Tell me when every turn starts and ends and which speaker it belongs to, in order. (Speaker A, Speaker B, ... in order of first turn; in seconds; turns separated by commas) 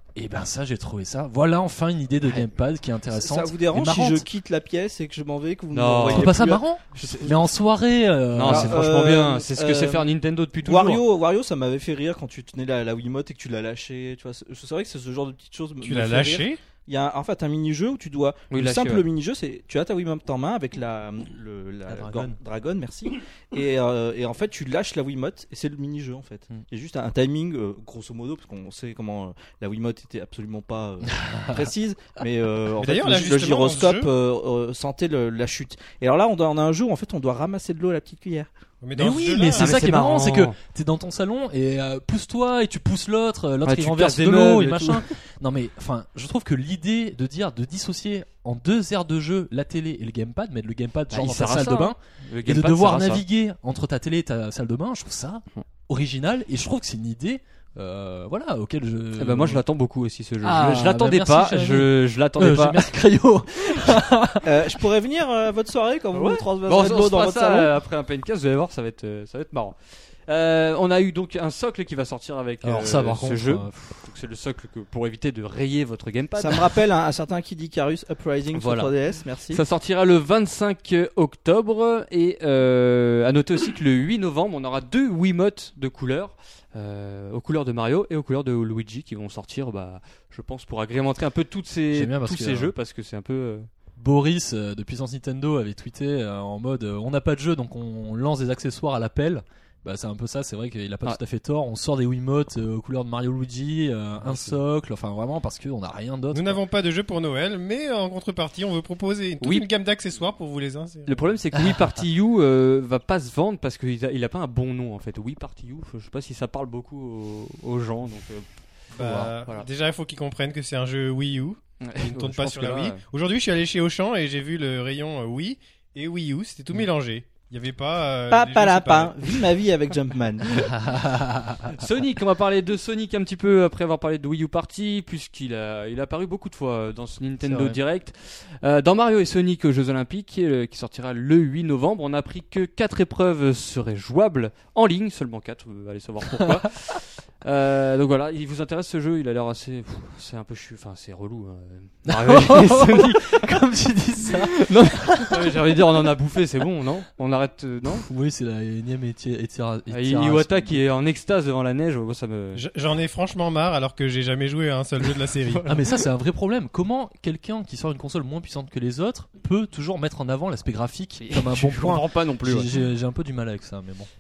Speaker A: 0.1-4.3, Speaker B: 3.1-7.4, Speaker C: 5.7-6.4, Speaker A: 6.1-8.9, Speaker C: 7.0-7.2, Speaker C: 8.3-11.0, Speaker B: 8.4-10.1, Speaker B: 10.6-38.5, Speaker D: 15.8-16.6, Speaker C: 18.5-19.0, Speaker A: 21.9-22.4, Speaker A: 31.0-31.7, Speaker D: 32.8-34.1, Speaker D: 38.8-39.8, Speaker A: 38.9-59.6, Speaker C: 39.6-40.5, Speaker C: 43.6-45.0, Speaker C: 51.1-53.2, Speaker C: 59.2-62.9, Speaker A: 60.4-64.5, Speaker B: 64.4-67.7, Speaker C: 66.1-76.8, Speaker A: 72.6-73.9, Speaker B: 76.4-79.6, Speaker C: 78.5-78.9, Speaker C: 79.5-93.7, Speaker A: 91.9-92.7, Speaker A: 94.0-106.6, Speaker C: 104.2-104.5, Speaker D: 106.3-111.2, Speaker C: 109.4-109.7, Speaker C: 111.1-118.5, Speaker D: 119.0-129.4, Speaker A: 119.0-119.3, Speaker C: 121.8-123.0, Speaker B: 128.3-130.7, Speaker A: 130.8-131.6, Speaker C: 131.7-153.5, Speaker A: 137.4-137.8, Speaker A: 152.1-155.8, Speaker C: 154.3-158.0, Speaker A: 157.9-160.8, Speaker C: 159.9-162.6, Speaker D: 162.5-165.8, Speaker A: 165.6-174.1, Speaker C: 171.2-172.7